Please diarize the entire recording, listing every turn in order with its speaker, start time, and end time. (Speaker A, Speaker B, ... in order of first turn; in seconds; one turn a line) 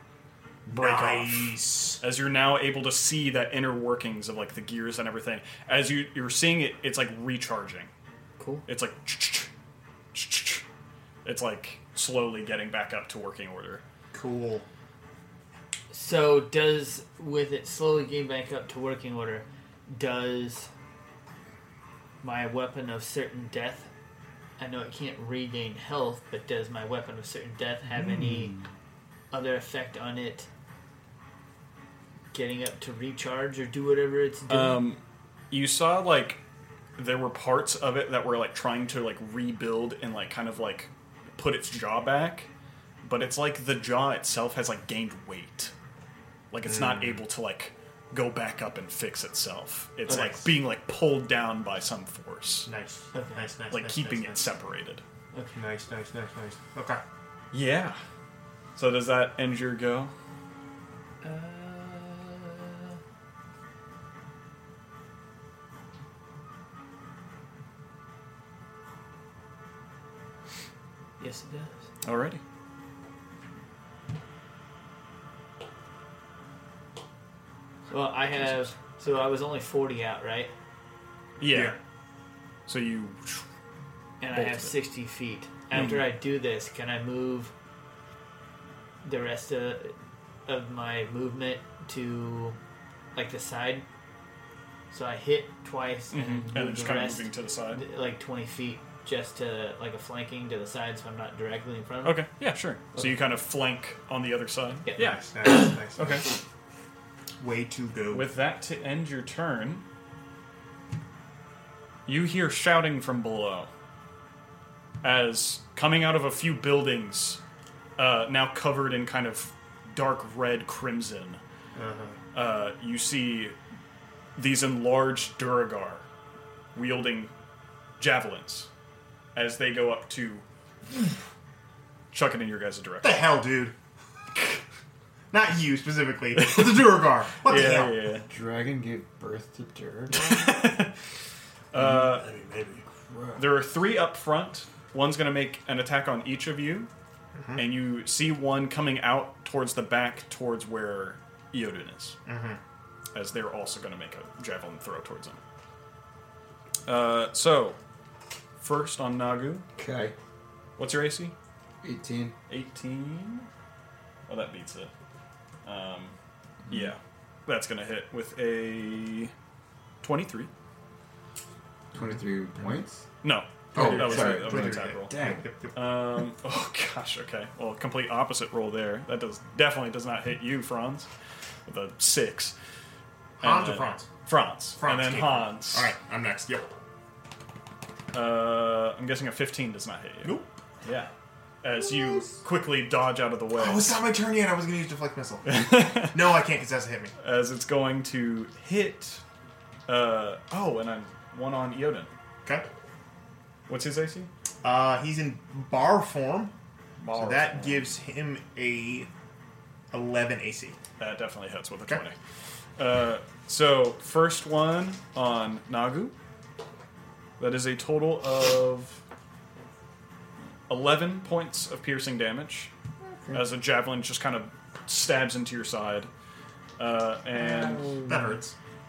Speaker A: 0.7-2.0
Speaker B: 0.7-1.4
Speaker B: 2.0-7.9
Speaker C: 8.4-8.7
Speaker B: 8.7-9.5
Speaker B: 10.1-10.6
Speaker B: 11.2-13.8
Speaker A: 14.1-14.7
Speaker C: 15.9-20.7
Speaker C: 22.2-23.9
Speaker C: 24.6-28.6
Speaker D: 27.9-28.6
Speaker C: 29.3-30.5
Speaker C: 32.3-34.9
Speaker B: 34.5-36.4
Speaker B: 37.0-42.5
Speaker B: 43.0-45.7
Speaker B: 46.5-52.7
Speaker A: 46.6-47.2
Speaker A: 50.1-50.4
Speaker A: 52.6-54.5
Speaker C: 53.1-53.5
Speaker B: 53.7-55.0
Speaker C: 55.3-55.6
Speaker A: 55.5-57.0
Speaker B: 57.5-58.0
Speaker B: 58.8-60.1
Speaker C: 61.2-63.0
Speaker C: 71.2-71.9
Speaker B: 72.0-72.4
Speaker C: 77.9-80.5
Speaker B: 81.4-81.8
Speaker A: 81.5-81.8
Speaker B: 82.7-83.5
Speaker C: 84.2-87.5
Speaker B: 84.3-84.8
Speaker B: 85.7-86.1
Speaker C: 89.0-89.9
Speaker C: 90.5-92.6
Speaker C: 93.1-93.8
Speaker C: 94.9-102.3
Speaker B: 96.1-97.8
Speaker B: 102.0-105.3
Speaker C: 104.8-105.6
Speaker A: 105.0-106.2
Speaker B: 105.9-106.2
Speaker A: 107.4-108.3
Speaker B: 108.1-109.8
Speaker B: 112.0-113.7
Speaker B: 115.0-117.4
Speaker B: 118.0-121.4
Speaker A: 121.7-122.2
Speaker B: 122.3-123.5
Speaker B: 124.4-126.0
Speaker B: 126.7-127.3
Speaker B: 128.0-128.7
Speaker B: 129.3-130.4
Speaker B: 132.1-133.3
Speaker A: 133.0-133.7
Speaker A: 135.3-137.9
Speaker B: 136.3-136.8
Speaker B: 137.3-138.3
Speaker D: 138.3-140.7
Speaker B: 140.1-140.9
Speaker B: 141.7-142.3
Speaker A: 141.8-142.8
Speaker D: 143.1-143.6
Speaker B: 143.3-146.9
Speaker A: 147.3-147.6
Speaker B: 147.6-152.2
Speaker A: 152.2-152.6
Speaker B: 153.1-155.4
Speaker B: 156.8-157.8
Speaker B: 158.6-159.7
Speaker D: 159.8-160.1
Speaker B: 160.8-161.3
Speaker D: 161.8-162.3
Speaker B: 162.5-163.5
Speaker B: 164.3-164.9
Speaker B: 165.6-166.1
Speaker B: 166.7-169.3
Speaker B: 170.0-170.5
Speaker D: 171.9-173.1
Speaker B: 173.2-175.2
Speaker A: 173.7-175.7
Speaker D: 173.7-175.4
Speaker B: 175.7-181.1
Speaker B: 181.7-182.5
Speaker A: 183.4-184.1
Speaker B: 183.4-185.9
Speaker A: 184.8-186.7
Speaker B: 188.1-191.1
Speaker A: 190.2-190.6
Speaker B: 191.6-194.0
Speaker D: 192.0-192.4
Speaker A: 193.6-197.1
Speaker B: 195.4-196.2
Speaker B: 197.2-199.2
Speaker B: 199.9-202.1
Speaker B: 203.7-204.3
Speaker A: 204.6-206.5
Speaker B: 207.0-207.9
Speaker A: 207.1-209.1
Speaker A: 209.9-210.8
Speaker B: 211.0-212.2
Speaker B: 212.8-216.1
Speaker B: 217.4-219.0
Speaker B: 220.7-222.7
Speaker D: 223.0-223.4
Speaker B: 223.3-226.1
Speaker B: 226.8-228.0
Speaker D: 227.3-228.4
Speaker A: 228.1-228.5